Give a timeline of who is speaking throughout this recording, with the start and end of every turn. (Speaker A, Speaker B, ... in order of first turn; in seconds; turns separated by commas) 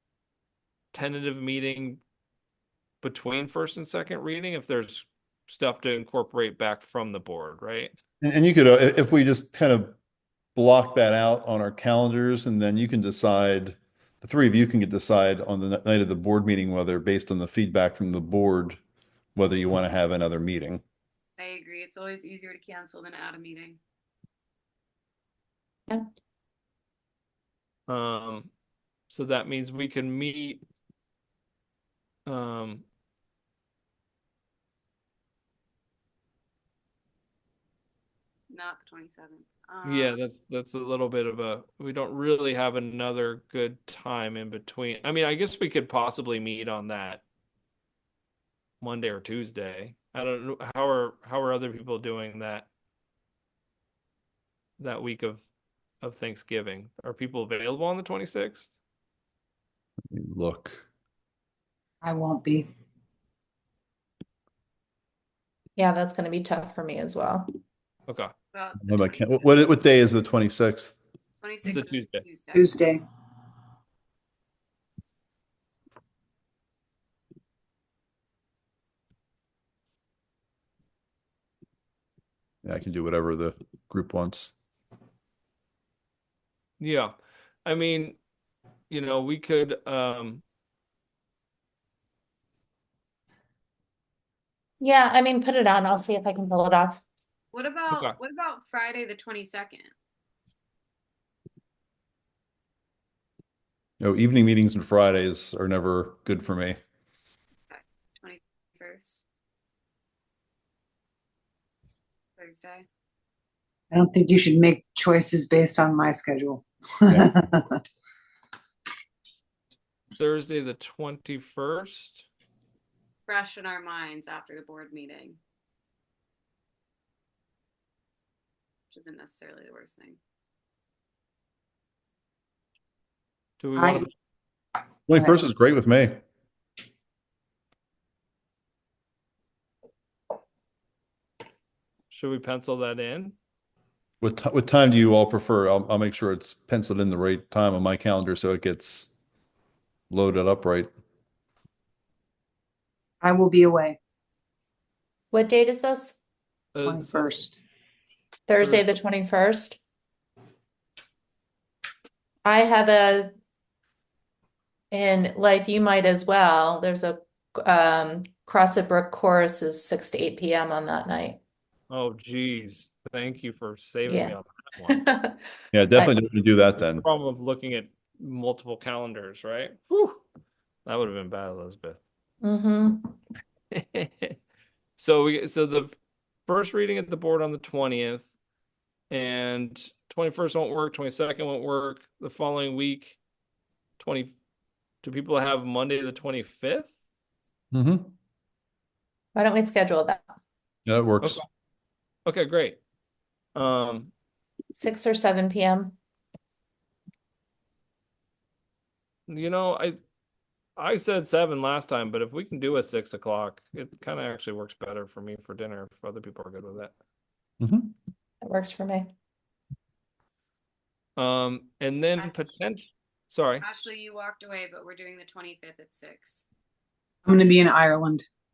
Speaker A: 0.9-2.0, Speaker A: 3.0-7.9, Speaker B: 8.2-9.9, Speaker B: 10.5-18.8, Speaker B: 19.3-20.8, Speaker C: 21.4-23.8, Speaker A: 27.9-28.5, Speaker A: 29.1-30.6, Speaker A: 32.2-32.8, Speaker C: 38.5-40.2, Speaker A: 39.8-47.2, Speaker A: 48.8-52.7, Speaker A: 54.8-55.4, Speaker A: 56.0-58.7, Speaker B: 60.1-60.9, Speaker D: 62.0-62.7, Speaker E: 65.8-67.5, Speaker A: 68.1-68.3, Speaker C: 68.5-69.5, Speaker B: 68.8-71.0, Speaker C: 71.4-72.7, Speaker A: 71.6-72.2, Speaker D: 72.5-73.0, Speaker B: 82.6-84.5, Speaker A: 86.8-87.1, Speaker A: 87.6-88.2, Speaker A: 88.9-90.4, Speaker E: 94.8-97.0, Speaker C: 97.5-99.9, Speaker B: 104.0-106.8, Speaker C: 107.7-109.2, Speaker C: 112.4-112.8, Speaker D: 113.9-117.8, Speaker A: 120.2-122.3, Speaker C: 123.3-125.4, Speaker C: 128.9-130.2, Speaker A: 133.6-134.1, Speaker D: 133.7-134.1, Speaker B: 135.1-136.2, Speaker D: 135.1-135.4, Speaker A: 142.1-143.3, Speaker B: 144.2-149.1, Speaker B: 150.1-150.9, Speaker D: 153.2-154.0, Speaker E: 155.3-156.1, Speaker A: 156.7-157.3, Speaker D: 156.8-157.6, Speaker E: 158.5-159.8, Speaker A: 158.6-158.8, Speaker E: 162.4-163.3, Speaker E: 164.9-171.4, Speaker A: 171.9-175.0, Speaker E: 174.1-175.4, Speaker B: 175.7-177.0, Speaker A: 176.9-180.2, Speaker A: 180.8-182.0, Speaker E: 182.4-183.2, Speaker A: 183.7-184.4, Speaker A: 185.0-185.9, Speaker A: 186.5-188.3, Speaker A: 189.1-193.2, Speaker A: 194.0-194.3, Speaker A: 195.0-196.9, Speaker B: 197.7-198.1, Speaker E: 199.3-200.3, Speaker B: 200.9-201.4, Speaker A: 202.2-202.8, Speaker A: 203.5-204.1, Speaker E: 204.8-205.9, Speaker A: 209.3-210.0, Speaker A: 210.8-216.9, Speaker B: 217.6-217.9, Speaker E: 218.4-219.1, Speaker A: 221.2-223.6, Speaker C: 223.6-226.4, Speaker D: 227.2-228.2